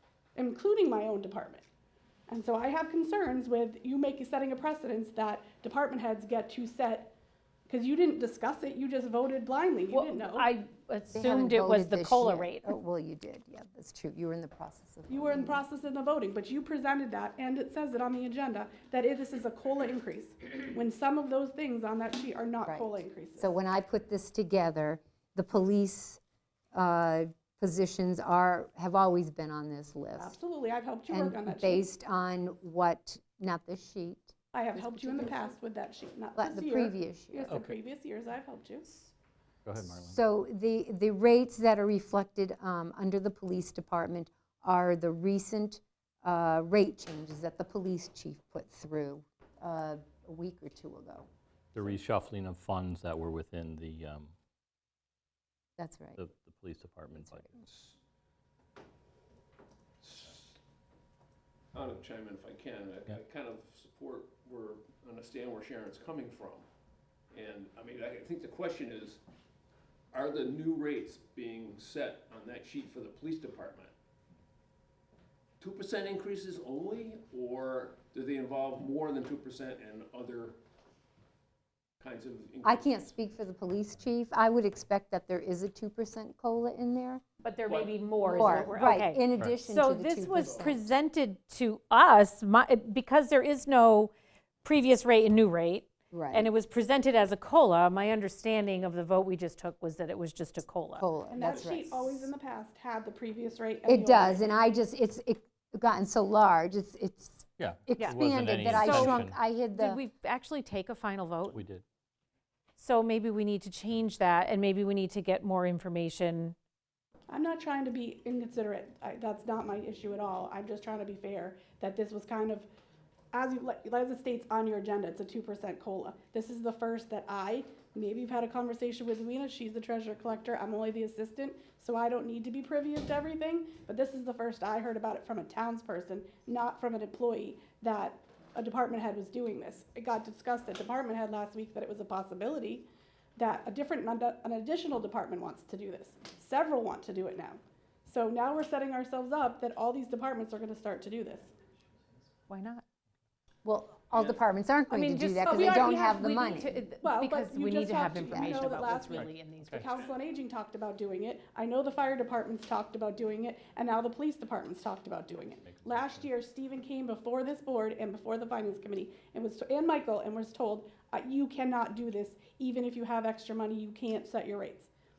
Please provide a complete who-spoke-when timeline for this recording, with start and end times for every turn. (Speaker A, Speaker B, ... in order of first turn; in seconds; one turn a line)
Speaker A: 0.3-1.6
Speaker A: 2.3-7.1
Speaker A: 7.7-10.5
Speaker B: 9.9-12.7
Speaker C: 11.1-15.6
Speaker A: 15.1-23.5
Speaker C: 22.6-26.2
Speaker C: 26.7-30.4
Speaker A: 30.2-31.9
Speaker C: 31.1-35.5
Speaker A: 34.5-38.9
Speaker C: 36.4-37.5
Speaker D: 37.5-37.8
Speaker D: 39.6-40.2
Speaker C: 39.8-51.3
Speaker D: 51.7-54.3
Speaker C: 55.8-56.2
Speaker D: 56.2-57.7
Speaker C: 57.2-57.5
Speaker E: 57.7-58.0
Speaker E: 60.0-60.6
Speaker E: 61.7-66.7
Speaker E: 67.3-69.2
Speaker E: 70.1-73.9
Speaker E: 75.6-80.6
Speaker E: 82.0-83.0
Speaker C: 82.6-87.2
Speaker B: 87.4-101.1
Speaker E: 87.7-88.6
Speaker C: 88.2-90.9
Speaker C: 96.1-96.5
Speaker C: 101.0-102.3
Speaker A: 101.3-104.4
Speaker C: 103.8-110.0
Speaker D: 107.6-109.4
Speaker B: 108.7-109.2
Speaker B: 109.7-111.6
Speaker D: 111.5-111.8
Speaker B: 112.8-116.5
Speaker A: 117.3-122.7
Speaker A: 123.3-142.8
Speaker A: 143.4-151.5
Speaker B: 152.5-152.8
Speaker C: 153.6-156.8
Speaker B: 154.9-159.9
Speaker A: 155.4-156.4
Speaker A: 157.0-174.9
Speaker C: 158.2-158.6
Speaker D: 159.1-159.9
Speaker D: 165.4-166.3